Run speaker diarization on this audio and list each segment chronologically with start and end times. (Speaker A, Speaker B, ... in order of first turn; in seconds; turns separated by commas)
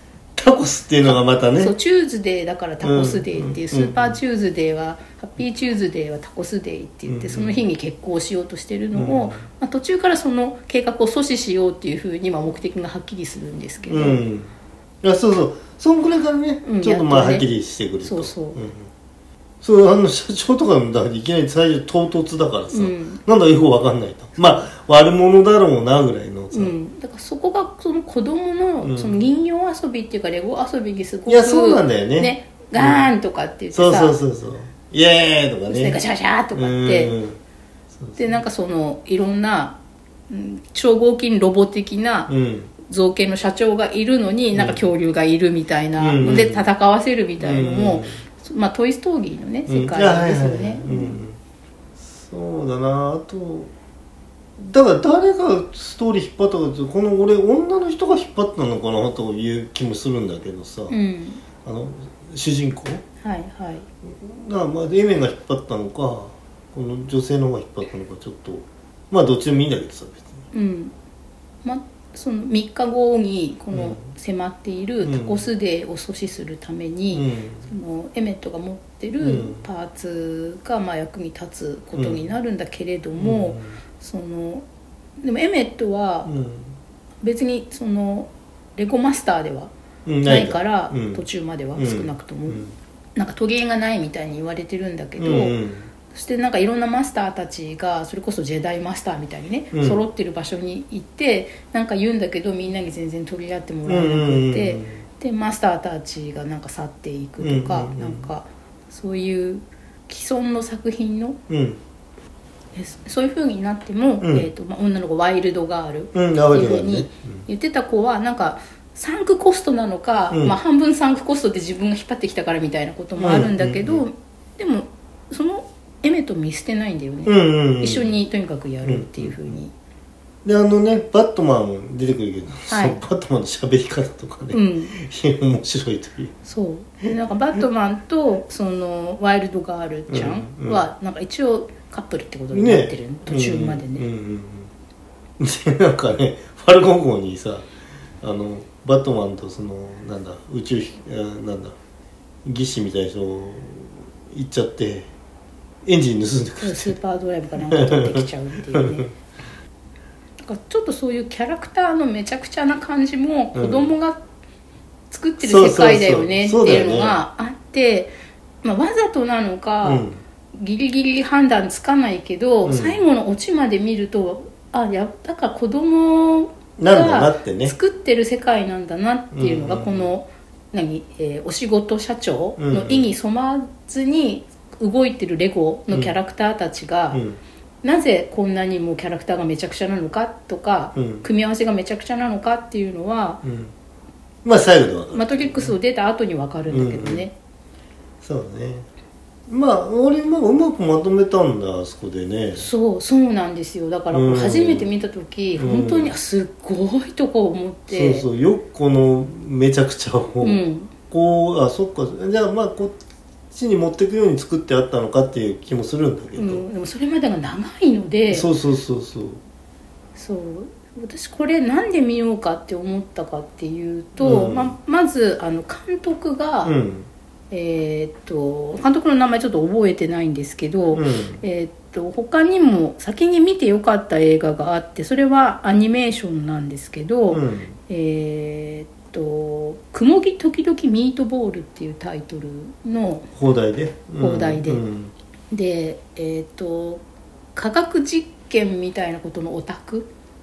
Speaker A: 0.3-1.7, Speaker B: 1.0-14.2, Speaker A: 2.8-4.2, Speaker A: 7.1-7.6, Speaker A: 8.9-9.5, Speaker A: 13.9-14.5, Speaker A: 15.0-18.9, Speaker B: 16.6-17.5, Speaker B: 18.0-18.6, Speaker A: 19.6-26.7, Speaker B: 22.7-23.2, Speaker B: 26.5-34.1, Speaker A: 28.8-29.2, Speaker A: 31.3-33.1, Speaker A: 33.7-36.0, Speaker B: 35.7-37.2, Speaker A: 36.5-37.4, Speaker B: 38.2-39.8, Speaker B: 40.3-51.2, Speaker A: 42.3-42.7, Speaker A: 44.5-44.8, Speaker A: 46.0-46.7, Speaker A: 47.4-48.2, Speaker A: 49.7-51.4, Speaker A: 52.0-53.7, Speaker A: 54.6-61.0, Speaker B: 60.9-61.4, Speaker A: 61.6-63.0, Speaker B: 63.2-63.9, Speaker A: 64.0-70.4, Speaker B: 70.5-70.9, Speaker B: 71.6-84.6, Speaker A: 73.7-74.0, Speaker A: 75.0-75.5, Speaker A: 77.1-77.7, Speaker A: 79.2-79.6, Speaker A: 81.9-82.2, Speaker A: 83.2-83.8, Speaker B: 85.2-86.3, Speaker A: 86.2-86.7, Speaker B: 87.2-89.7, Speaker A: 90.0-91.2, Speaker B: 90.2-92.6, Speaker A: 91.8-92.7, Speaker B: 93.2-95.6, Speaker A: 95.2-95.9, Speaker B: 96.1-111.4, Speaker A: 99.7-100.0, Speaker A: 103.8-105.0, Speaker A: 107.4-108.3, Speaker A: 111.5-111.8, Speaker B: 112.7-129.7, Speaker A: 114.2-114.5, Speaker A: 116.1-117.4, Speaker A: 120.3-120.5, Speaker A: 123.2-124.0, Speaker A: 127.2-128.1, Speaker A: 128.8-129.4, Speaker A: 130.4-136.3, Speaker B: 132.7-133.0, Speaker B: 134.5-134.9, Speaker B: 136.4-144.1, Speaker A: 140.1-140.8, Speaker A: 142.5-144.7, Speaker A: 145.4-147.7, Speaker A: 148.2-151.8, Speaker A: 152.4-155.1, Speaker A: 155.8-156.9, Speaker B: 156.6-159.1, Speaker A: 157.7-159.1, Speaker B: 160.4-164.2, Speaker A: 163.5-163.9, Speaker B: 165.1-187.2, Speaker A: 165.4-167.2, Speaker A: 169.8-170.2, Speaker A: 172.6-173.0, Speaker A: 176.8-177.8, Speaker A: 179.3-180.1, Speaker A: 182.6-183.1, Speaker A: 187.1-187.4, Speaker B: 187.8-193.4, Speaker A: 190.9-191.2, Speaker A: 193.4-193.7, Speaker A: 194.4-195.7, Speaker B: 195.1-197.3, Speaker A: 196.7-197.3, Speaker A: 198.2-198.9, Speaker A: 199.5-202.7, Speaker B: 202.6-208.3, Speaker A: 204.1-204.9, Speaker A: 205.6-206.1, Speaker A: 207.9-213.0, Speaker B: 210.4-210.9, Speaker A: 213.5-216.6, Speaker B: 216.3-218.5, Speaker A: 218.3-219.4, Speaker B: 220.2-226.7, Speaker A: 224.2-224.7, Speaker A: 226.6-227.1, Speaker B: 227.5-243.3, Speaker A: 230.9-231.4, Speaker A: 237.3-237.8, Speaker A: 243.3-245.1, Speaker B: 244.2-244.8, Speaker B: 245.5-247.0, Speaker B: 247.5-250.1